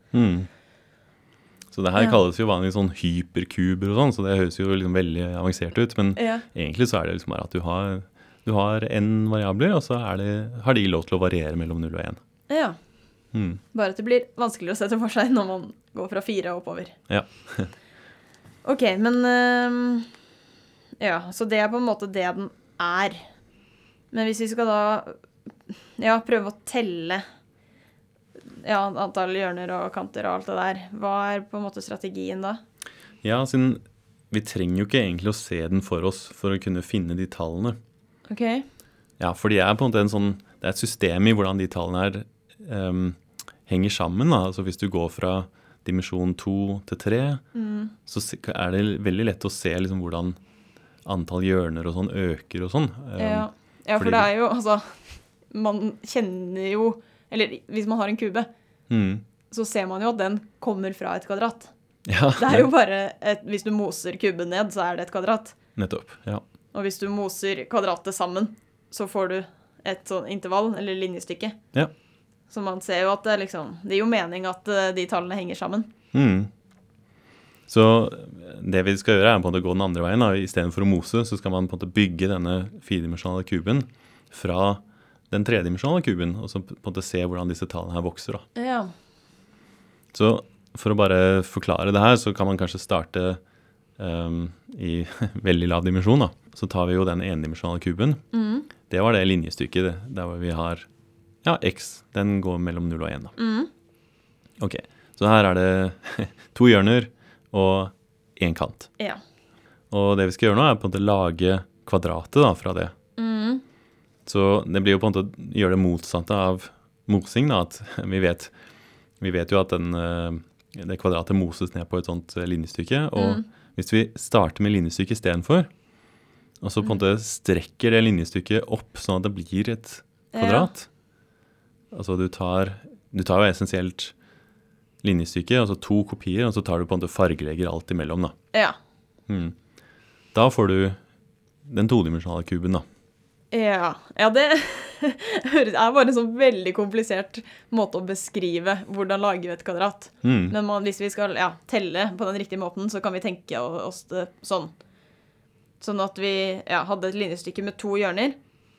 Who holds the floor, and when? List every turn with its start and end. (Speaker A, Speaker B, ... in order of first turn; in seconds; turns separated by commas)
Speaker A: 0.1-0.5, Speaker A: 1.7-12.2, Speaker B: 6.2-6.5, Speaker B: 12.5-12.8, Speaker A: 13.3-13.6, Speaker B: 13.7-17.0, Speaker A: 17.1-17.7, Speaker B: 18.6-20.1, Speaker B: 21.0-23.2, Speaker B: 24.1-25.2, Speaker B: 26.0-27.2, Speaker B: 28.6-32.6, Speaker A: 33.2-37.8, Speaker B: 38.3-38.7, Speaker A: 39.2-47.4, Speaker B: 47.5-47.9, Speaker A: 48.1-50.4, Speaker A: 51.0-54.3, Speaker B: 53.2-55.0, Speaker B: 55.5-58.5, Speaker A: 58.9-59.2, Speaker B: 59.5-61.7, Speaker A: 62.1-62.7, Speaker B: 62.4-65.5, Speaker A: 65.8-66.4, Speaker B: 66.7-71.6, Speaker B: 72.5-75.9, Speaker A: 76.1-76.5, Speaker A: 77.7-88.5, Speaker B: 88.6-88.9, Speaker A: 90.1-93.4, Speaker A: 94.0-98.2, Speaker B: 98.3-98.7, Speaker A: 98.9-100.9, Speaker A: 101.4-103.3, Speaker B: 103.4-103.7, Speaker A: 104.6-108.9, Speaker A: 109.9-112.9, Speaker B: 113.2-113.6, Speaker A: 114.3-118.5, Speaker A: 119.2-125.7, Speaker B: 123.2-123.5, Speaker A: 126.6-130.9, Speaker B: 130.3-130.7, Speaker A: 131.9-134.1, Speaker A: 135.0-138.3, Speaker A: 139.3-139.6, Speaker A: 140.3-141.0, Speaker A: 141.7-142.8, Speaker B: 143.5-154.7, Speaker A: 150.2-150.6, Speaker B: 155.8-158.4